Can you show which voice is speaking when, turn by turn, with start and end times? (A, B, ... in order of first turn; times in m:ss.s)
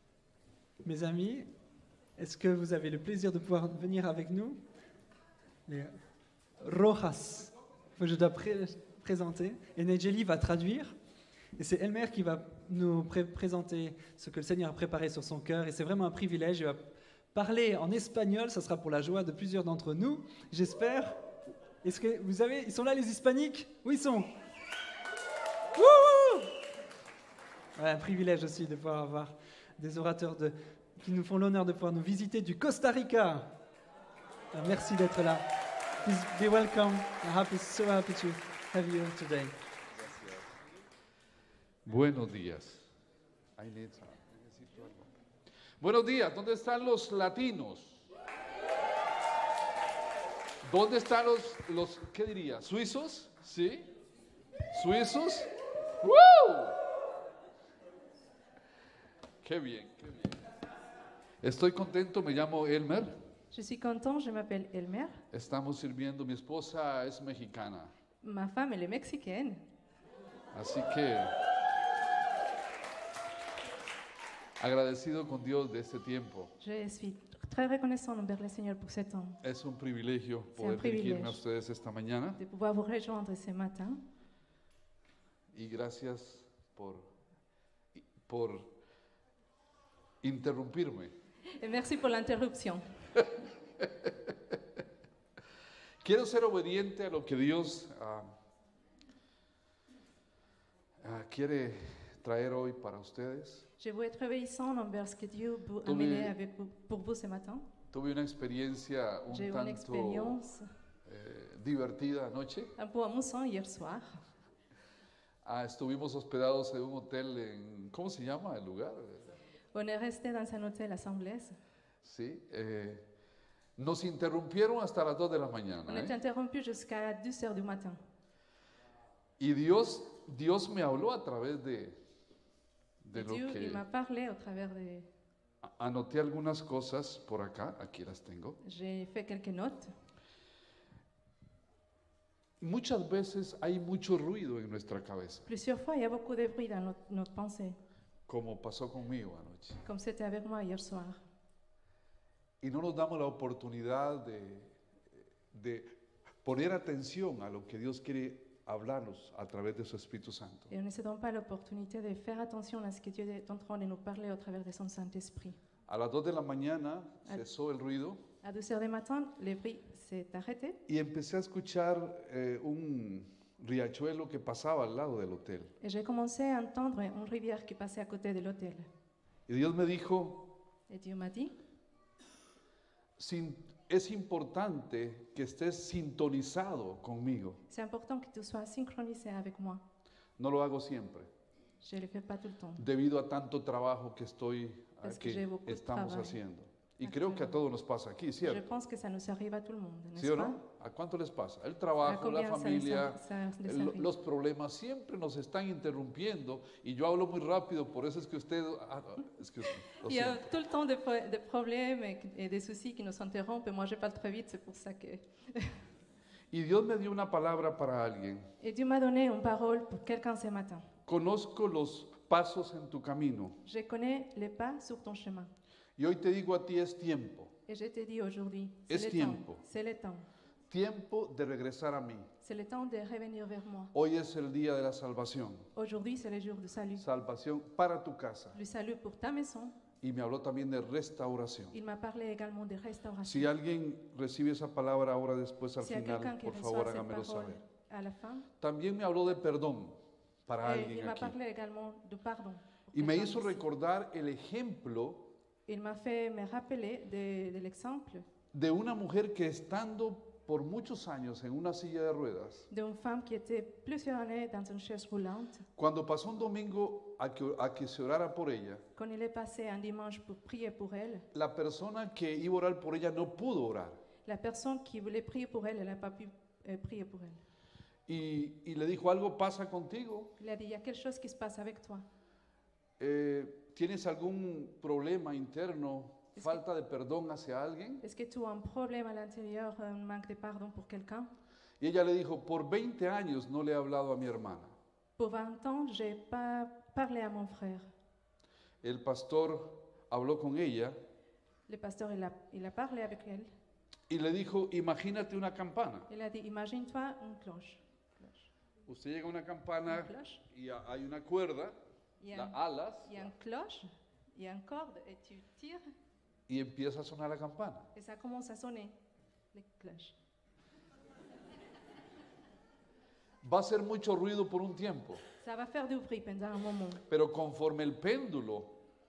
0:00.8-0:01.5 A
0:02.2-0:04.6 A
0:05.7-0:05.9 A
0:06.6-0:11.0 A
0:11.6-0:16.8 A
0:17.3-0:21.2 A
0:21.8-0:24.3 A
0:25.8-0:26.5 A
0:27.8-0:33.5 A
0:34.5-0:35.4 A
0:36.0-0:39.5 A
0:40.0-0:40.5 B
0:41.8-0:42.9 B
0:43.6-0:45.1 B
0:45.8-0:48.0 B
0:50.6-0:53.9 B
0:54.7-0:56.8 B
0:59.4-1:00.4 B
1:01.4-1:03.1 B
1:03.5-1:05.2 C
1:05.3-1:07.9 B
1:08.2-1:09.6 C
1:10.5-1:11.3 B
1:14.6-1:16.5 B
1:16.6-1:19.4 C
1:19.4-1:22.4 B
1:20.6-1:21.4 C
1:22.4-1:24.0 C
1:25.5-1:27.1 B
1:27.9-1:28.7 B
1:30.2-1:31.1 B
1:31.6-1:32.8 C
1:33.8-1:34.1 B
1:36.0-1:38.3 B
1:41.0-1:43.7 B
1:43.8-1:47.7 C
1:45.8-1:46.4 B
1:47.9-1:50.4 B
1:49.3-1:50.7 C
1:51.1-1:52.7 B
1:52.8-1:54.2 C
1:55.4-1:59.3 B
1:59.7-2:01.6 C
2:02.0-2:03.0 B
2:03.8-2:06.2 B
2:05.9-2:08.0 C
2:09.4-2:12.0 B
2:13.0-2:13.8 B
2:13.1-2:15.1 C
2:15.6-2:18.6 B
2:18.6-2:19.9 C
2:22.6-2:25.4 B
2:25.5-2:27.8 C
2:28.3-2:29.8 B
2:29.8-2:31.2 C
2:32.6-2:34.8 B
2:35.5-2:40.7 B
2:40.7-2:45.6 C
2:45.9-2:48.2 B
2:48.4-2:50.8 C
2:50.9-2:55.7 B
2:55.8-2:58.9 C
2:59.5-3:00.5 B
3:00.9-3:01.5 C
3:03.2-3:07.6 B
3:07.7-3:09.8 C
3:10.4-3:11.3 B
3:11.8-3:12.8 C
3:12.8-3:18.6 B
3:15.0-3:16.4 C
3:17.0-3:17.6 C
3:18.4-3:20.6 C
3:20.2-3:30.5 B
3:22.0-3:24.1 C
3:30.0-3:35.8 C
3:36.5-3:38.5 B
3:38.6-3:40.9 C
3:41.1-3:43.6 B
3:43.6-3:45.5 C
3:46.0-3:47.5 B
3:47.7-3:50.3 C
3:48.9-3:49.6 B
3:50.7-3:52.3 B
3:52.4-3:53.9 C
3:53.9-3:55.7 B
3:55.8-3:57.0 C
3:57.0-3:58.6 B
3:58.5-3:59.8 C
4:00.0-4:01.8 B
4:01.7-4:03.5 C
4:03.2-4:07.6 B
4:05.8-4:08.5 C
4:08.6-4:11.4 B
4:10.6-4:13.6 C
4:12.9-4:15.3 B
4:15.7-4:18.3 C
4:18.5-4:22.7 B
4:22.7-4:25.7 C
4:25.8-4:28.8 B
4:29.0-4:31.3 C
4:31.3-4:34.0 B
4:34.2-4:37.4 C
4:38.1-4:40.3 B
4:40.4-4:42.0 C
4:43.0-4:48.0 B
4:46.4-4:46.6 C
4:48.0-4:51.3 C
4:51.8-4:54.7 B
4:55.2-4:57.9 C
4:58.8-5:01.0 B
5:01.7-5:03.5 C
5:04.1-5:06.1 B
5:06.1-5:08.5 C
5:08.9-5:11.8 B
5:09.9-5:10.4 C
5:12.2-5:15.8 C
5:12.3-5:13.3 B
5:16.5-5:17.9 B
5:17.9-5:18.9 C
5:19.5-5:20.2 C
5:23.4-5:25.2 B
5:25.4-5:27.0 C
5:27.1-5:28.8 B